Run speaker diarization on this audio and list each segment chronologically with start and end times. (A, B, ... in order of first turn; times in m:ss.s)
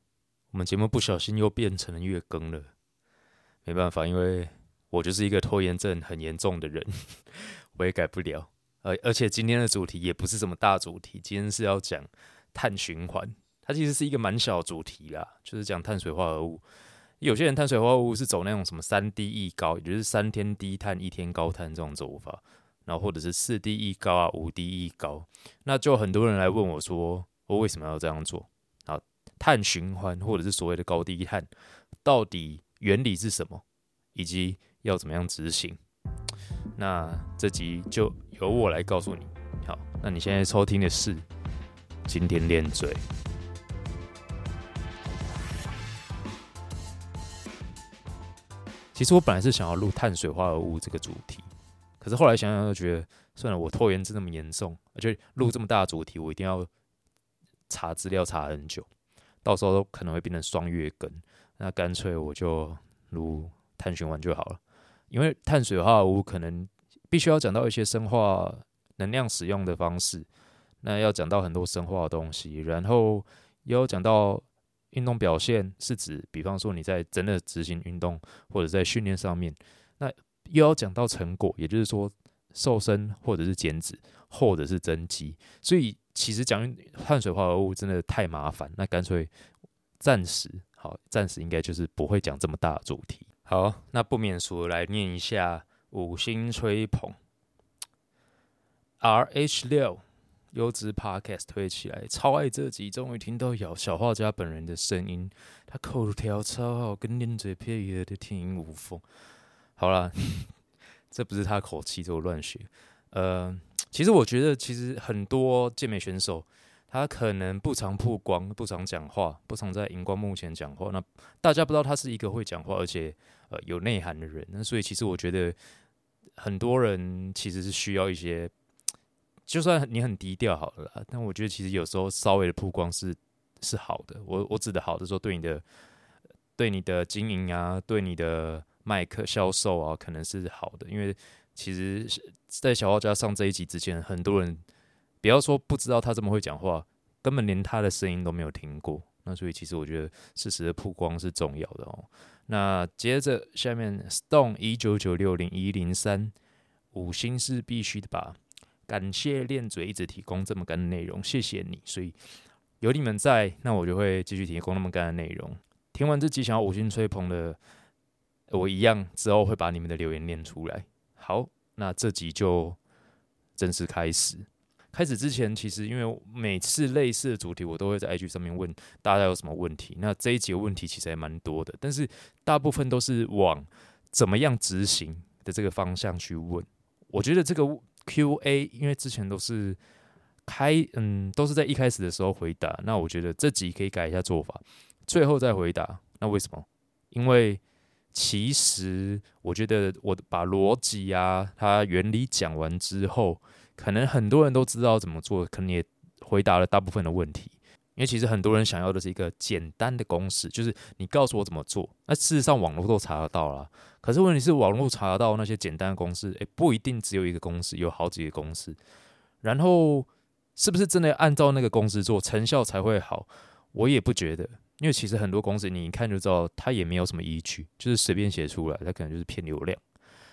0:00.5-0:02.7 A
0:03.6-0:16.6 A
0:17.2-0:31.5 A
0:32.0-0:33.6 A
0:34.1-0:35.8 A
0:36.8-0:41.2 A
0:42.1-0:43.0 A
0:48.9-0:51.5 A
0:52.0-0:56.7 A
0:57.7-0:58.9 A
0:59.4-1:04.6 A
1:05.1-1:10.3 A
1:10.8-1:29.3 A
1:30.0-1:37.2 A
1:39.0-1:49.0 A
1:49.8-1:50.5 A
1:51.1-2:05.6 A
2:06.4-2:08.5 A
2:09.5-2:15.6 A
2:16.6-2:24.6 A
2:25.2-2:36.3 A
2:36.9-2:42.1 A
2:42.8-2:47.6 A
2:48.5-2:52.8 A
2:53.6-3:09.8 A
3:10.4-3:17.6 A
3:18.1-3:38.8 A
3:39.4-3:49.8 A